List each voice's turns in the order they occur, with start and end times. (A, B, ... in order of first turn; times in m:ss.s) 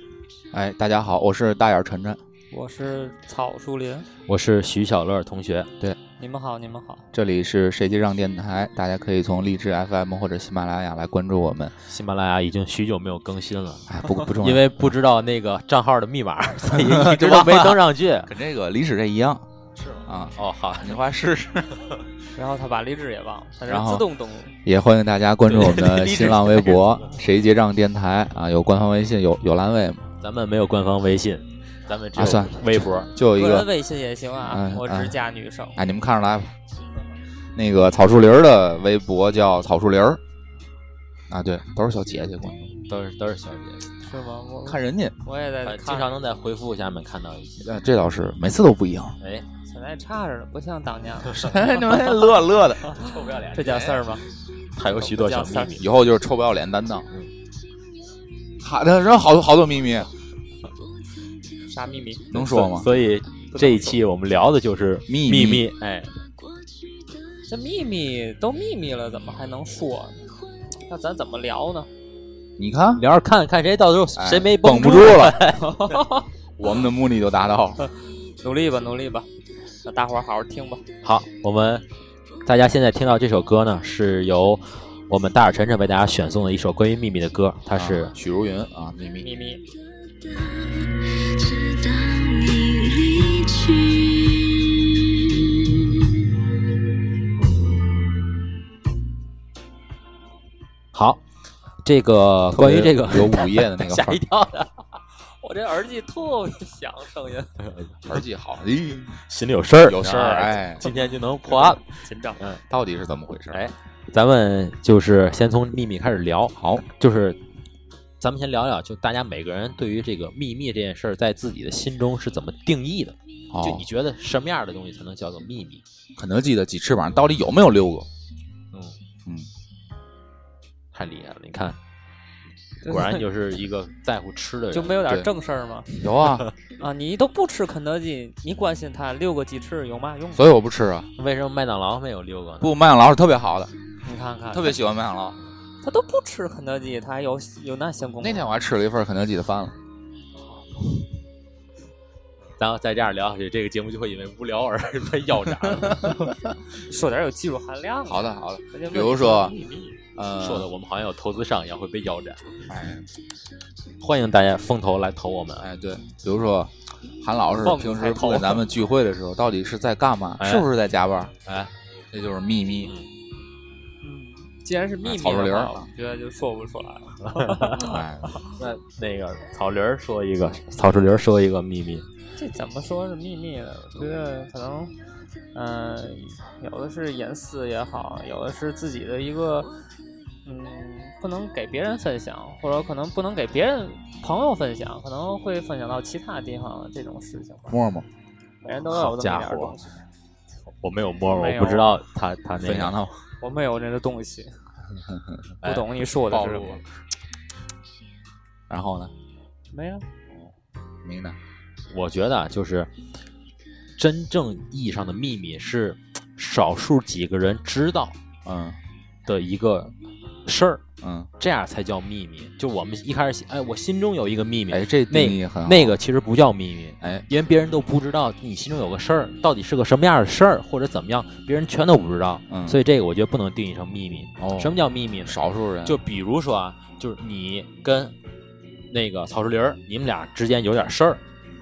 0:00.5-0:02.2 A
0:02.5-0:04.1 B
0:04.3-0:05.7 C
0:06.2-0:07.0 B
0:07.1-0:11.8 A
0:11.9-0:18.3 C
0:13.9-0:14.7 A
0:16.7-0:19.5 A
0:19.9-0:21.0 C
0:20.1-0:21.8 A
0:22.4-0:24.6 B
0:23.7-0:24.0 A
0:24.6-0:30.1 A
0:25.5-0:27.1 C
0:30.2-0:33.1 C
0:32.2-0:33.7 A
0:33.3-0:35.8 B
0:34.4-0:35.2 A
0:35.8-0:36.5 A
0:37.6-0:40.2 A
0:41.3-0:42.8 A
0:42.9-0:43.9 C
0:44.0-0:46.1 B
0:44.6-0:45.2 A
0:45.6-0:47.7 C
0:47.6-0:49.2 A
0:49.2-0:49.5 C
0:49.7-0:52.2 B
0:51.3-0:52.9 A
0:52.9-0:54.1 C
0:53.5-0:54.2 B
0:54.8-0:55.8 C
0:55.1-0:55.8 B
0:55.7-0:57.1 A
0:58.6-1:00.1 A
1:01.7-1:02.3 B
1:02.3-1:02.9 A
1:02.3-1:06.1 C
1:03.5-1:04.0 B
1:05.1-1:05.7 A
1:07.5-1:10.3 B
1:10.9-1:11.9 B
1:12.6-1:13.0 A
1:12.9-1:15.7 C
1:14.2-1:15.5 A
1:15.6-1:16.3 B
1:16.6-1:17.9 A
1:17.8-1:19.3 B
1:19.8-1:20.8 B
1:21.0-1:21.9 C
1:22.5-1:28.1 C
1:27.7-1:29.3 A
1:29.2-1:29.7 B
1:30.4-1:35.8 D
1:40.9-1:41.2 C
1:41.8-1:44.8 C
1:42.5-1:44.2 A
1:45.3-1:47.6 B
1:47.6-1:48.1 C
1:48.0-1:49.2 A
1:49.2-1:52.6 C
1:49.7-1:50.8 A
1:50.8-1:52.4 B
1:52.7-1:53.6 A
1:53.5-1:57.4 C
1:56.6-1:56.8 A
1:58.2-2:05.8 C
2:03.5-2:03.9 A
2:06.2-2:08.1 A
2:10.9-2:11.8 C
2:12.8-2:13.2 B
2:12.9-2:15.0 C
2:14.7-2:16.1 B
2:15.0-2:15.3 A
2:16.0-2:16.5 A
2:16.8-2:20.5 B
2:20.3-2:21.1 A
2:21.2-2:22.8 C
2:22.6-2:23.7 A
2:24.0-2:24.8 B
2:24.5-2:25.4 A
2:25.8-2:28.5 B
2:28.2-2:29.8 A
2:30.4-2:30.7 B
2:32.6-2:36.2 C
2:36.8-2:40.0 B
2:38.1-2:39.6 A
2:40.2-2:40.7 A
2:40.4-2:42.6 C
2:42.7-2:43.1 A
2:44.0-2:45.7 C
2:45.6-2:51.3 A
2:47.6-2:48.7 B
2:50.4-2:50.7 C
2:51.4-2:51.7 C
2:52.1-2:52.9 A
2:54.0-2:58.0 B
2:55.0-2:55.8 A
2:57.2-2:57.8 C
2:57.8-2:58.4 A
2:58.6-3:02.0 C
3:02.4-3:04.9 B
3:05.6-3:09.7 B
3:10.4-3:17.8 B
3:17.7-3:18.1 A
3:18.6-3:20.0 B
3:18.9-3:19.8 C
3:20.8-3:23.0 C
3:21.3-3:22.0 B
3:22.6-3:23.2 A
3:23.4-3:24.6 B
3:24.9-3:25.4 A
3:25.6-3:26.8 B
3:26.3-3:26.8 A
3:28.7-3:29.1 A
3:29.7-3:30.1 B
3:31.0-3:31.4 A
3:31.9-3:32.9 C
3:34.0-3:38.2 C
3:38.4-3:38.8 A
3:39.3-3:40.8 C
3:41.0-3:41.3 A
3:41.4-3:58.2 C
3:44.7-3:46.0 A
3:47.0-3:47.3 A
3:52.5-3:52.8 A
3:54.4-3:56.0 A
3:58.9-4:01.2 C